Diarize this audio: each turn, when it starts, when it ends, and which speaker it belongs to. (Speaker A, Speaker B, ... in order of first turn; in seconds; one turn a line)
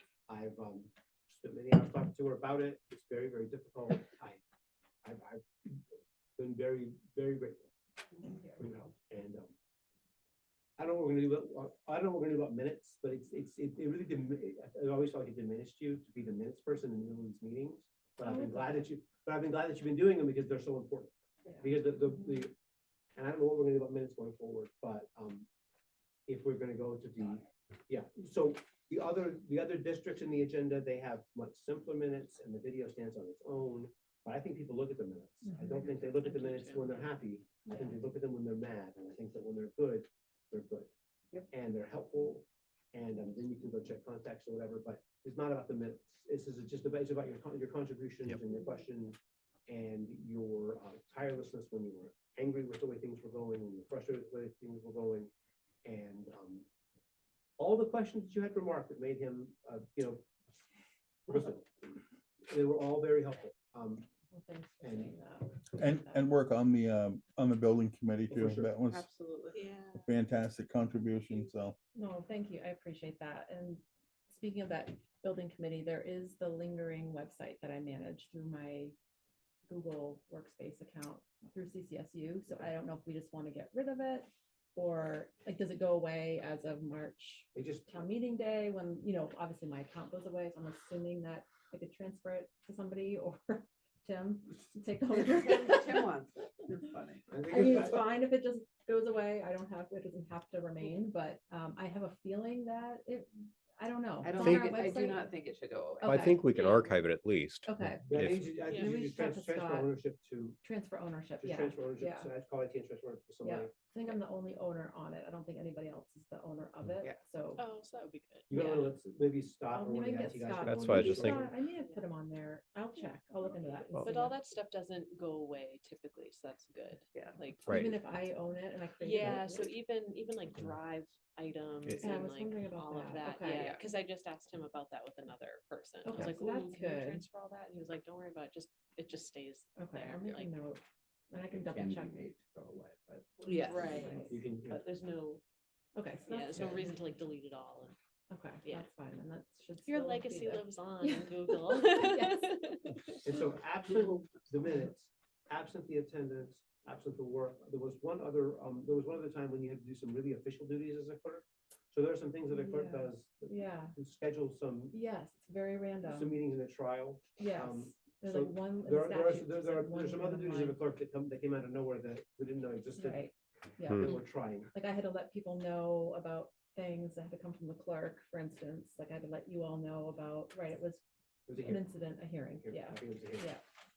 Speaker A: 0.3-4.4
Speaker A: 5.0-5.8
Speaker A: 6.4-7.7
Speaker B: 8.3-8.6
Speaker A: 8.4-9.5
Speaker A: 10.8-22.5
Speaker B: 18.2-18.9
Speaker A: 23.1-25.5
Speaker A: 26.3-40.9
Speaker B: 35.5-35.8
Speaker C: 36.0-37.1
Speaker A: 41.5-49.2
Speaker A: 49.7-55.3
Speaker A: 55.8-56.6
Speaker A: 57.6-60.2
Speaker A: 61.3-61.7
Speaker A: 62.5-64.1
Speaker B: 64.3-66.3
Speaker A: 64.8-65.1
Speaker D: 65.7-69.1
Speaker A: 68.3-68.7
Speaker E: 68.9-69.6
Speaker C: 69.5-70.0
Speaker D: 70.0-71.8
Speaker B: 71.9-78.9
Speaker B: 79.7-96.1
Speaker A: 87.5-87.9
Speaker E: 95.3-97.2
Speaker A: 97.3-98.0
Speaker B: 97.5-105.3
Speaker E: 104.2-106.1
Speaker F: 104.4-104.7
Speaker F: 106.0-108.5
Speaker B: 106.0-106.5
Speaker C: 106.5-106.9
Speaker B: 107.7-108.1
Speaker A: 108.0-110.6
Speaker C: 108.6-108.9
Speaker B: 108.7-110.0
Speaker B: 110.6-112.3
Speaker A: 111.4-113.7
Speaker B: 113.4-117.6
Speaker C: 117.5-118.9
Speaker A: 118.5-121.5
Speaker B: 119.7-124.4
Speaker F: 120.6-121.5
Speaker F: 123.9-124.2
Speaker C: 124.0-127.9
Speaker F: 127.7-128.0
Speaker B: 127.7-129.7
Speaker C: 129.0-140.5
Speaker F: 131.9-132.2
Speaker B: 132.0-133.7
Speaker B: 136.0-137.2
Speaker B: 139.8-142.2
Speaker A: 142.6-143.2
Speaker C: 143.4-145.4
Speaker E: 143.5-144.1
Speaker B: 143.6-144.4
Speaker A: 144.2-144.8
Speaker B: 145.9-146.6
Speaker C: 146.2-147.9
Speaker B: 148.3-153.3
Speaker C: 149.8-153.2
Speaker A: 153.2-165.0
Speaker B: 162.5-163.9
Speaker B: 164.9-166.4
Speaker A: 166.0-173.2
Speaker B: 167.4-170.8
Speaker B: 172.9-181.0
Speaker A: 173.9-174.7
Speaker A: 181.5-181.8
Speaker B: 181.6-183.6
Speaker A: 182.6-183.5